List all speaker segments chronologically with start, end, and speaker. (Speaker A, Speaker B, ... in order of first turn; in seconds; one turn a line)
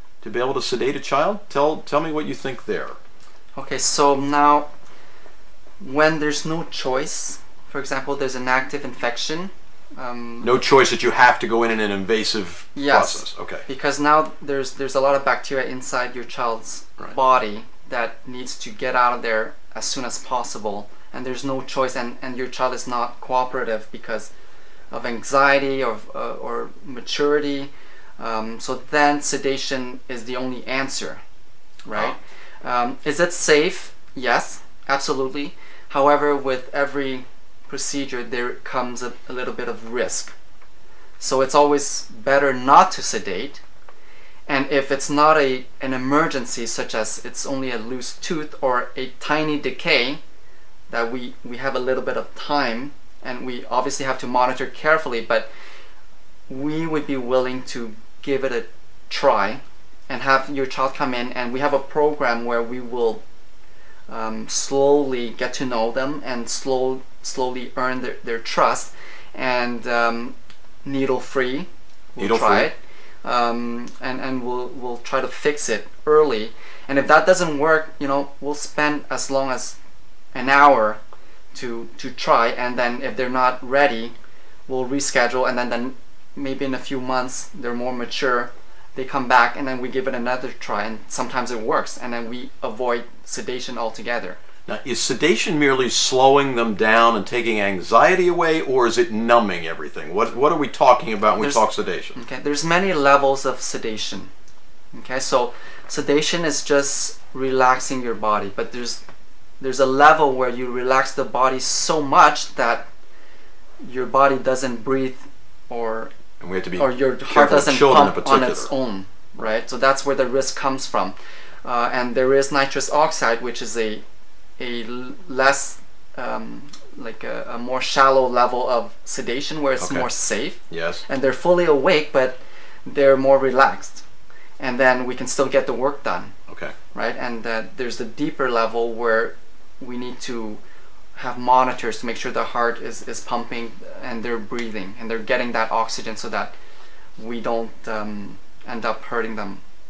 Speaker A: 0.2-3.0
Speaker B: 3.6-4.7
Speaker B: 5.8-10.5
Speaker A: 10.4-13.6
Speaker B: 12.8-24.3
Speaker B: 24.9-31.2
Speaker B: 31.9-40.3
Speaker B: 41.2-43.6
Speaker B: 44.5-50.2
Speaker B: 50.9-55.5
Speaker B: 56.5-63.2
Speaker B: 64.1-79.8
Speaker A: 72.2-72.7
Speaker B: 80.3-81.0
Speaker B: 81.5-84.1
Speaker B: 84.7-94.4
Speaker A: 94.7-102.2
Speaker B: 101.4-104.3
Speaker B: 104.9-109.0
Speaker B: 109.6-112.9
Speaker B: 113.8-116.1
Speaker A: 116.4-118.7
Speaker B: 116.8-124.0
Speaker B: 124.6-134.0
Speaker A: 129.8-130.1
Speaker A: 130.7-131.0
Speaker B: 134.6-136.3
Speaker A: 136.5-136.7
Speaker B: 136.9-140.6
Speaker B: 141.2-146.5
Speaker B: 147.2-149.6